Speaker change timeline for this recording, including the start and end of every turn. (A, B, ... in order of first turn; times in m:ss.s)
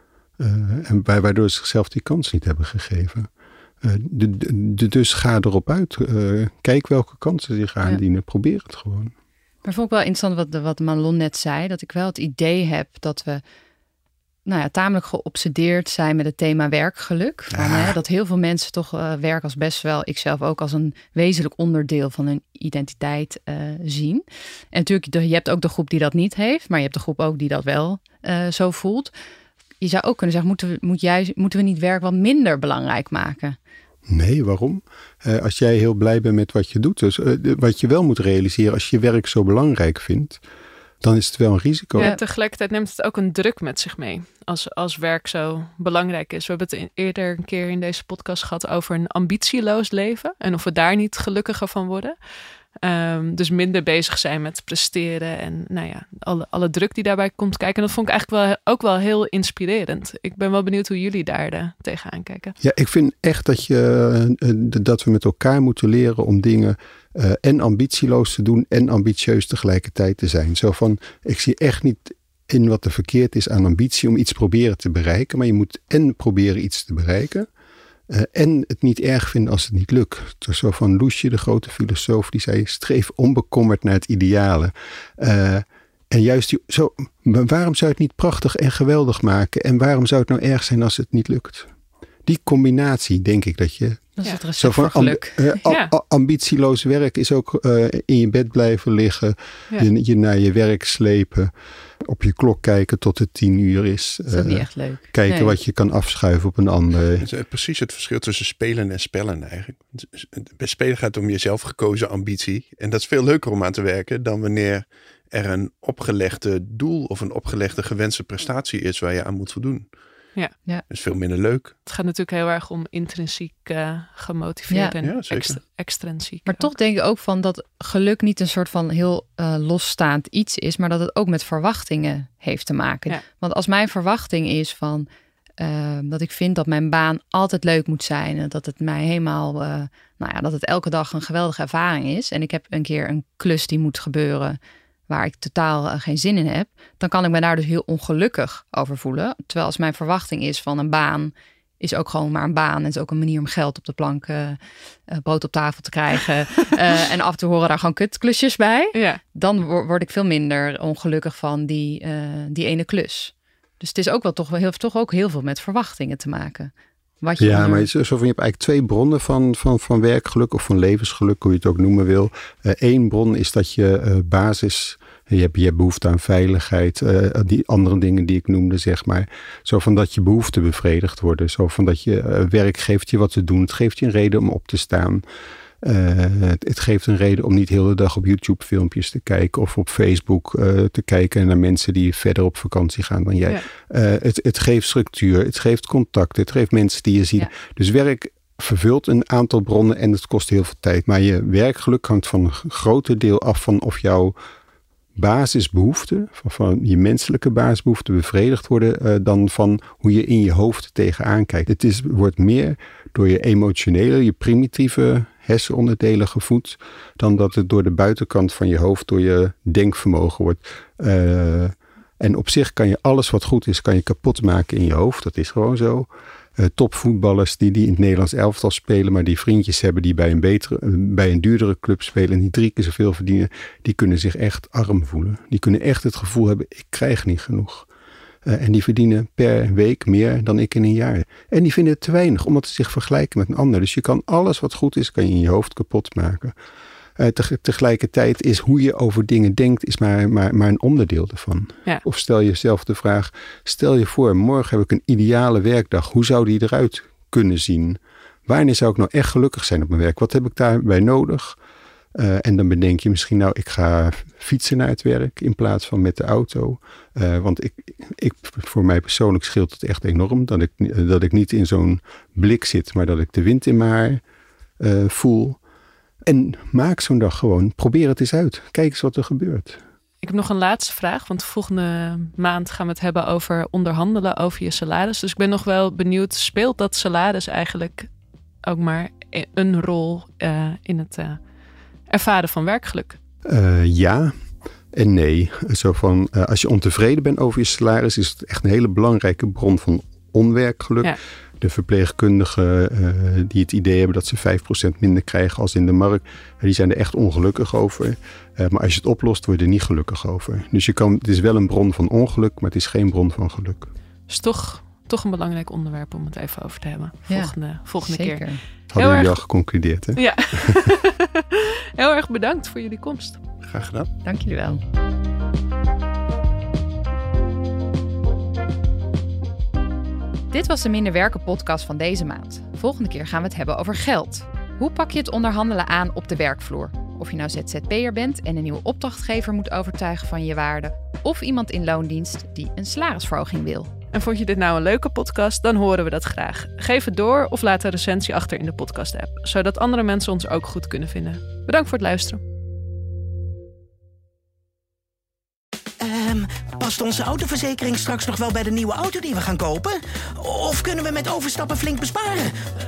0:00.4-0:03.3 A
0:03.8-0:09.1 A
0:09.6-0:13.4 B
0:14.4-0:29.1 B
0:17.6-0:17.8 A
0:29.8-0:33.6 B
0:34.1-0:40.4 A
0:41.0-0:42.1 A
0:41.9-0:52.2 C
0:52.8-1:02.6 C
1:02.6-1:17.5 A
1:18.1-1:31.7 A
1:32.2-1:47.3 A
1:34.2-1:35.6 B
1:35.6-1:35.9 C
1:44.3-1:45.6 B
1:47.2-1:59.9 D
2:00.9-2:01.8 D
2:01.8-2:06.7 C
2:05.0-2:05.6 D
2:06.5-2:15.1 B
2:15.6-2:47.9 B
2:38.9-2:39.2 C
2:47.4-3:05.2 A
3:05.8-3:24.3 A
3:25.1-3:57.9 A
3:58.4-4:06.5 A
4:07.2-4:21.6 A
4:22.1-4:34.2 A
4:34.8-4:35.6 A
4:36.2-4:39.8 A
4:40.2-4:48.1 C
4:48.6-4:51.4 C
4:52.1-4:53.2 C
4:53.4-5:13.9 A
5:14.3-5:19.4 C
5:17.3-5:18.6 B
5:18.9-5:20.8 A
5:20.1-5:23.4 C
5:23.6-5:24.1 D
5:24.2-5:24.8 B
5:30.5-5:43.9 B
5:44.1-5:52.4 C
5:56.0-6:02.5 E